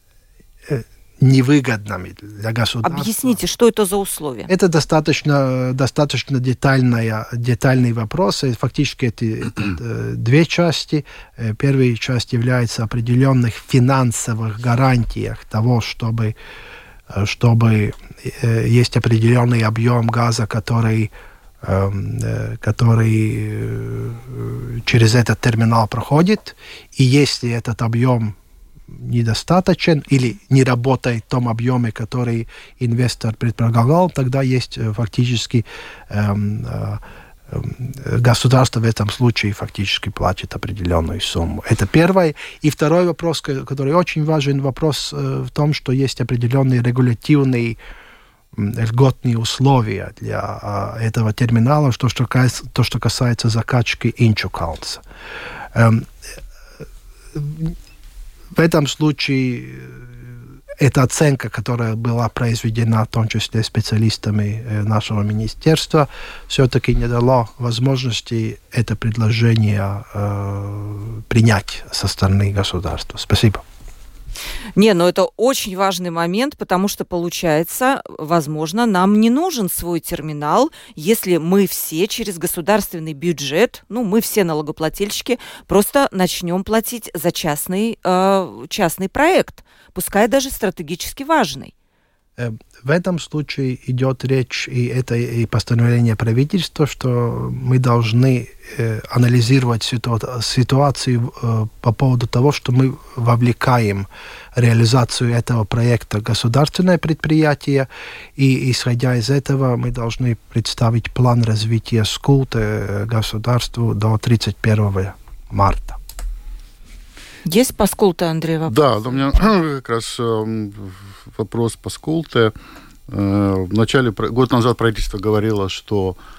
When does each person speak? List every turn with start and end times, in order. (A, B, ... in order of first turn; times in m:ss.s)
0:00.7-0:03.4 A
0:02.8-0:04.5 B
0:04.5-0:16.4 A
0:17.1-0:21.1 A
0:21.6-0:28.4 A
0:28.9-0:47.8 A
0:48.5-0:55.0 A
0:55.7-0:56.1 A
0:57.3-0:57.8 A
0:58.5-1:00.3 A
1:00.8-1:13.6 A
1:14.8-1:31.7 B
1:32.4-1:56.0 A
1:57.4-1:58.7 B
1:58.7-2:02.5 C
2:03.1-2:06.2 C